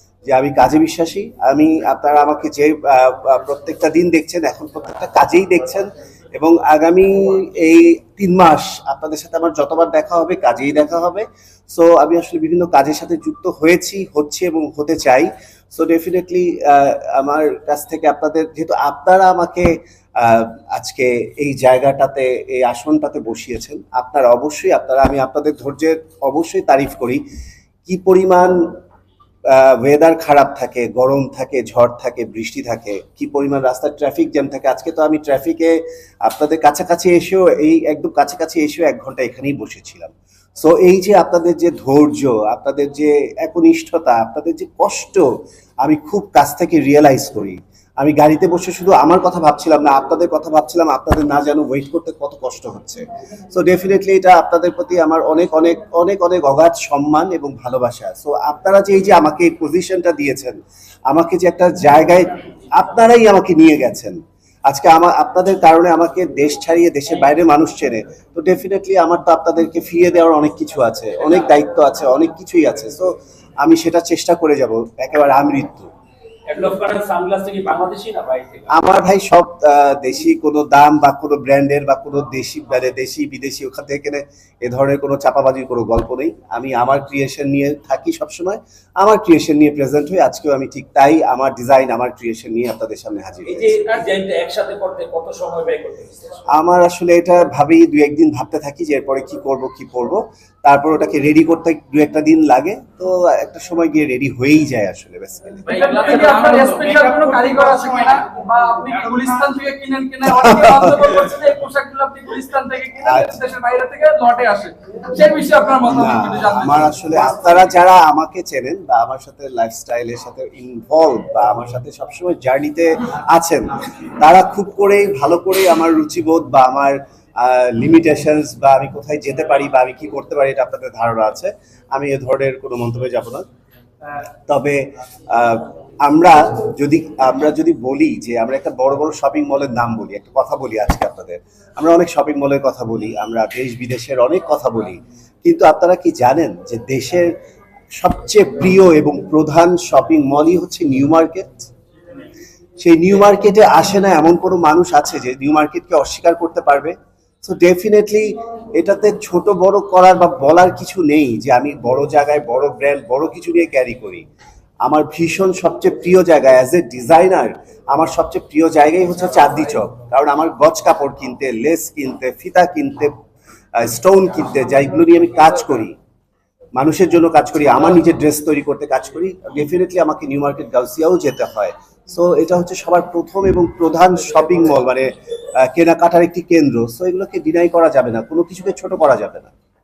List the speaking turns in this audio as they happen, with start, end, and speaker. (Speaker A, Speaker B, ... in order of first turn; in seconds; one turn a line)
Speaker A: 0.3-27.2
Speaker A: 27.9-28.8
Speaker A: 29.5-45.3
Speaker A: 45.8-60.6
Speaker A: 61.1-75.9
Speaker B: 76.5-78.7
Speaker A: 78.7-93.8
Speaker B: 93.5-96.4
Speaker A: 96.5-105.7
Speaker B: 105.7-107.4
Speaker C: 105.7-117.2
Speaker A: 110.3-111.1
Speaker A: 113.0-113.4
Speaker A: 115.9-133.5
Speaker A: 134.5-147.3
Speaker A: 148.0-151.7
Speaker A: 152.8-164.2
Speaker A: 164.8-173.1
Speaker A: 173.8-176.0
Speaker A: 176.8-189.5